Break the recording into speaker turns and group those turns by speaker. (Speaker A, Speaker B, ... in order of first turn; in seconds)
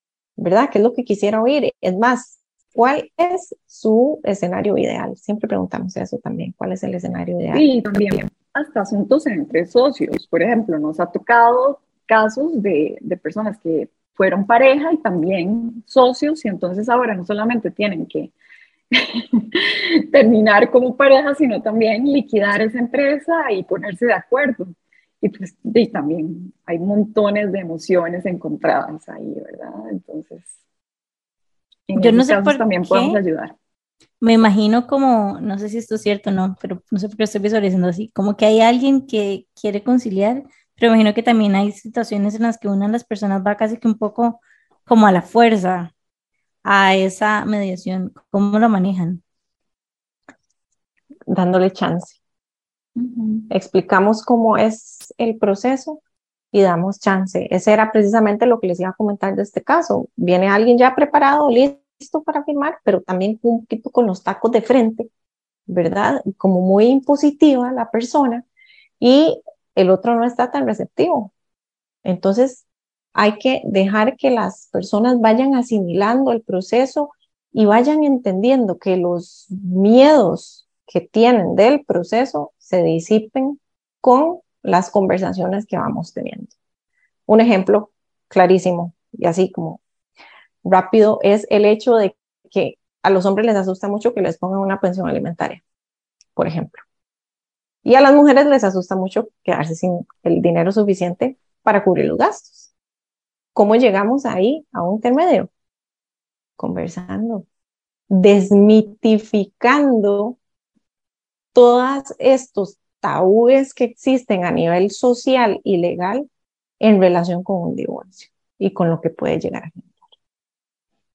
Speaker A: 0.4-8.2, 51.3-52.2, 53.5-56.0, 56.5-65.1, 65.7-68.4, 69.0-71.3, 72.0-86.5, 87.3-89.8, 90.7-95.6, 96.4-96.8, 97.8-102.7, 103.5-105.5, 106.6-107.5, 108.1-110.4, 111.5-116.3, 116.8-120.0
Speaker B: 7.5-18.3, 18.9-30.6, 31.9-33.5, 53.0-53.5
Speaker C: 31.9-33.2, 34.2-45.9, 46.6-49.2